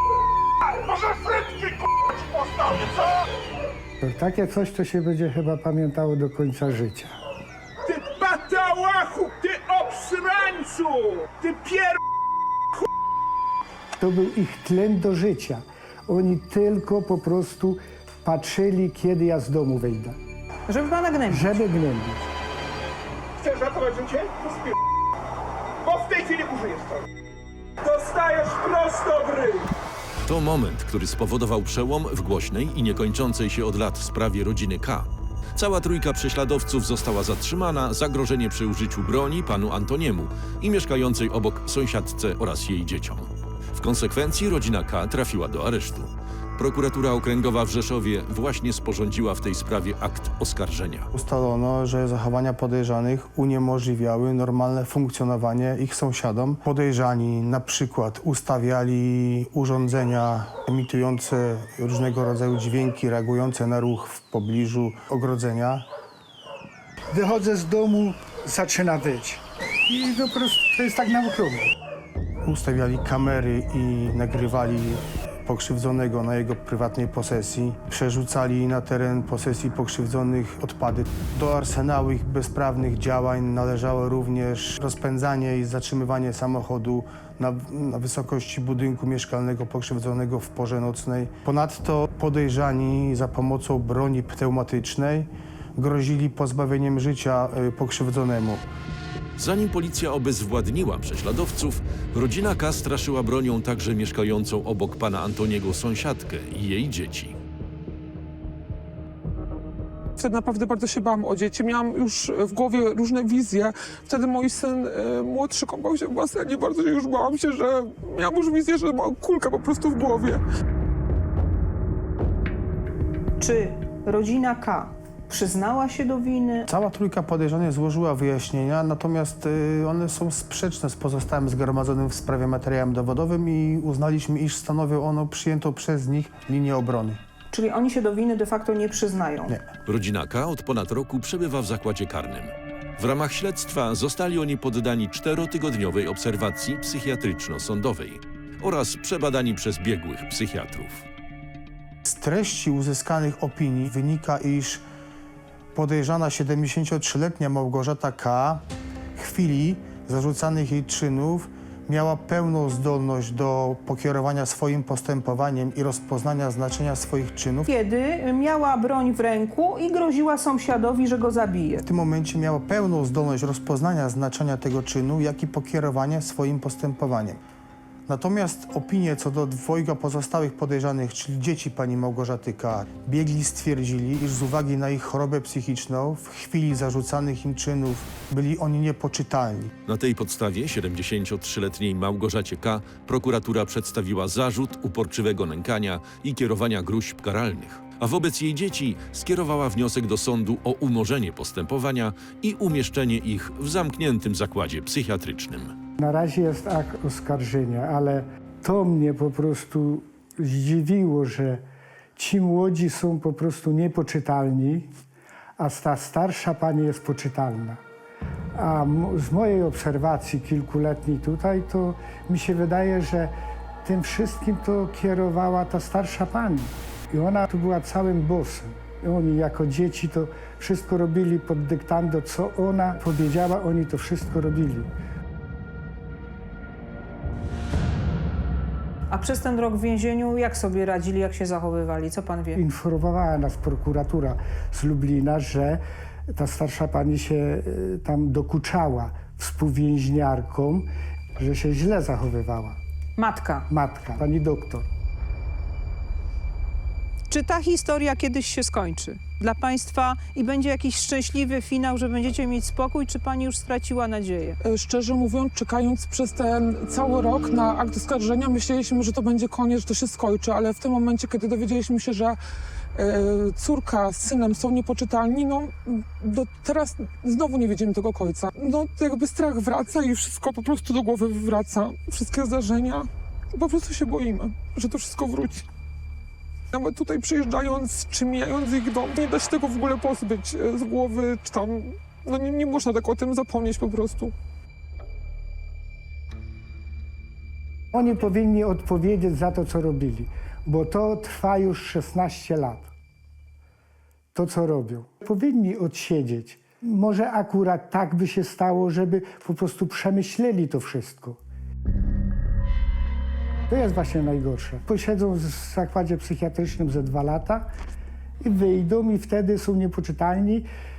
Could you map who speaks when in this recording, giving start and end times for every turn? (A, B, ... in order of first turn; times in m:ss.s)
0:00.9-0:01.8 A
0:02.4-0:02.8 A
0:04.0-0:07.2 B
0:07.8-0:12.0 A
0:14.0-0:20.2 B
0:20.7-0:21.5 C
0:21.3-0:22.3 B
0:23.4-0:24.6 A
0:25.8-0:27.0 A
0:27.8-0:29.7 A
0:30.2-0:51.1 D
0:51.1-1:05.8 E
1:07.1-1:11.7 B
1:12.4-1:38.6 E
1:39.4-1:47.4 D
1:50.2-2:00.4 F
2:03.4-2:06.7 C
2:06.7-2:17.2 E
2:17.5-2:19.5 C
2:19.8-2:31.0 D
2:32.0-2:34.8 E
2:35.7-2:38.6 E
2:39.1-2:47.7 E
2:47.6-2:51.8 C
2:51.8-2:57.4 E
2:58.1-3:09.7 E
3:09.8-3:25.7 D
3:26.0-3:31.6 B
3:32.2-3:34.9 B
3:35.6-3:37.8 B
3:38.6-3:43.3 B
3:43.8-3:54.9 B
3:59.1-4:02.6 C
4:02.6-4:12.8 B
4:13.2-4:13.7 C
4:13.7-4:14.9 B
4:17.3-4:24.6 C
4:24.6-4:32.4 F
4:32.9-4:45.7 F
4:46.7-4:54.3 F
4:57.9-5:02.9 B
5:04.3-5:11.4 B
5:13.7-5:17.7 B
5:18.4-5:20.7 B